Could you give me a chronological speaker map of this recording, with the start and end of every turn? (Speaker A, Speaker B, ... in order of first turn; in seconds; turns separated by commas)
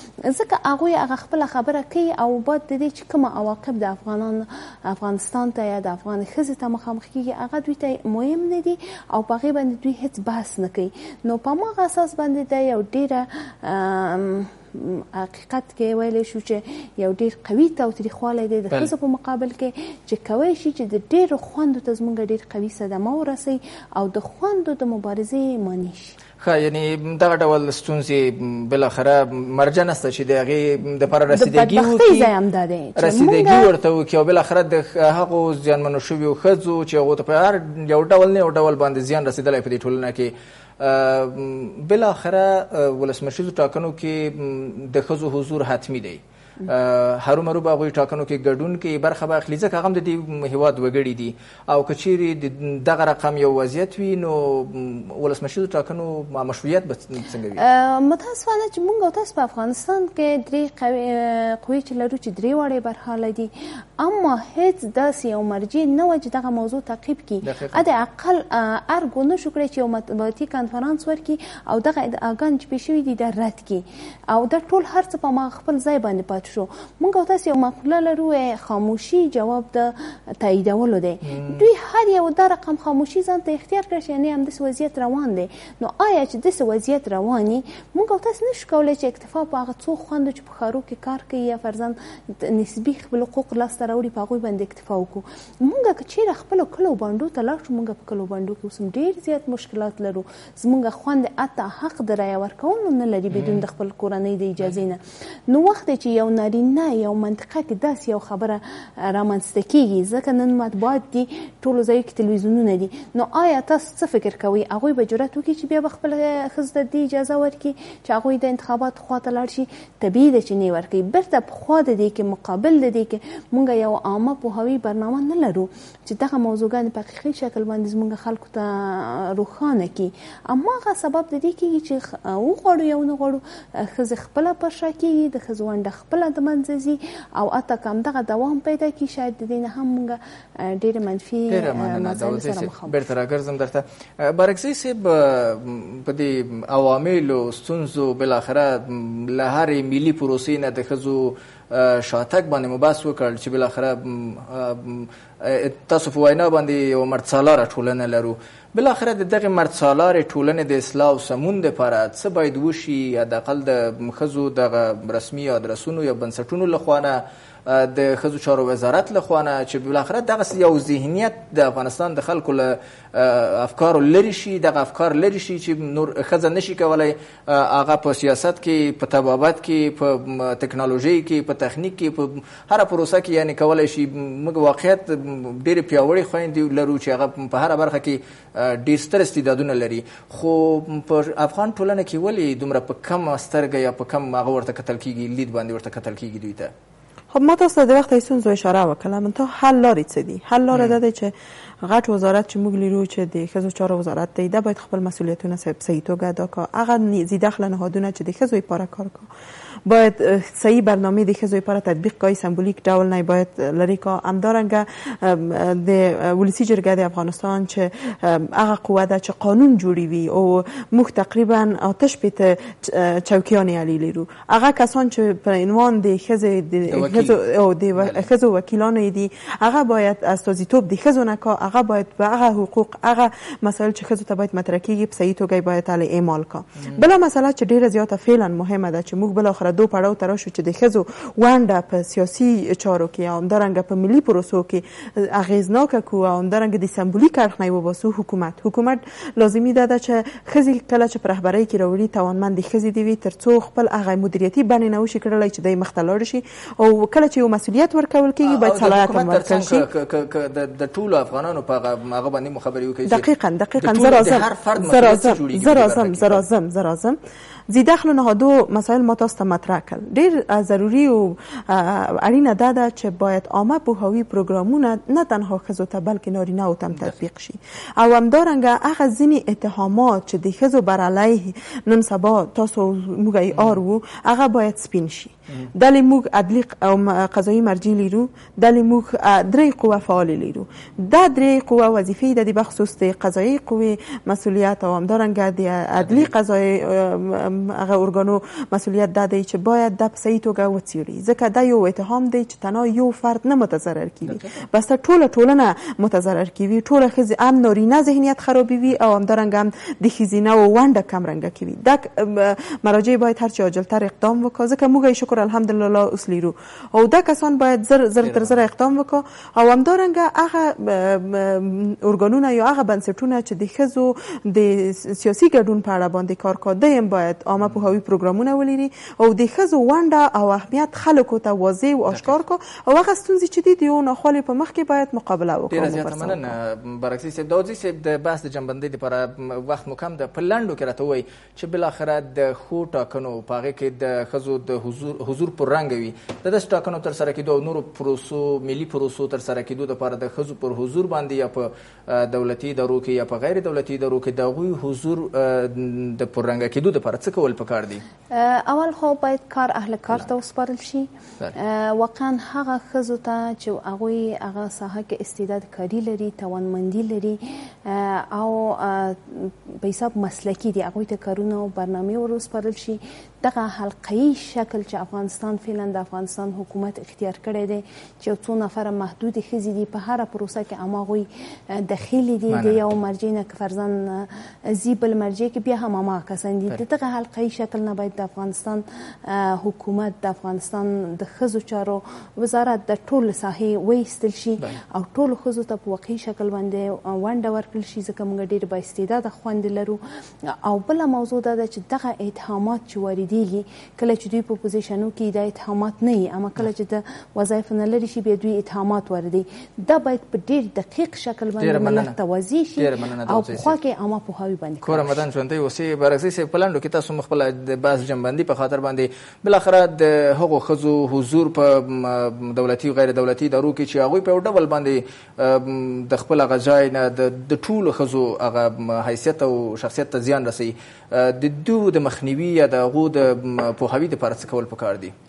Speaker A: 0.3-26.1, Speaker B: 26.4-32.3, Speaker A: 31.3-33.7, Speaker B: 33.0-57.6, Speaker A: 57.6-143.0, Speaker B: 67.4-67.8, Speaker B: 81.2-81.7, Speaker B: 103.3-103.6, Speaker B: 141.5-196.7, Speaker C: 197.3-209.3, Speaker B: 200.7-201.0, Speaker C: 209.8-259.9, Speaker B: 226.9-227.3, Speaker B: 228.0-228.2, Speaker B: 258.4-263.3, Speaker C: 263.1-267.2, Speaker B: 263.8-266.4, Speaker C: 267.7-336.5, Speaker B: 283.5-283.8, Speaker B: 296.0-296.3, Speaker B: 304.2-304.6, Speaker B: 318.2-318.6, Speaker B: 332.1-332.4, Speaker B: 335.7-358.0, Speaker A: 358.3-415.2, Speaker B: 382.5-382.8, Speaker B: 411.6-412.1, Speaker B: 412.8-413.8, Speaker B: 414.8-435.1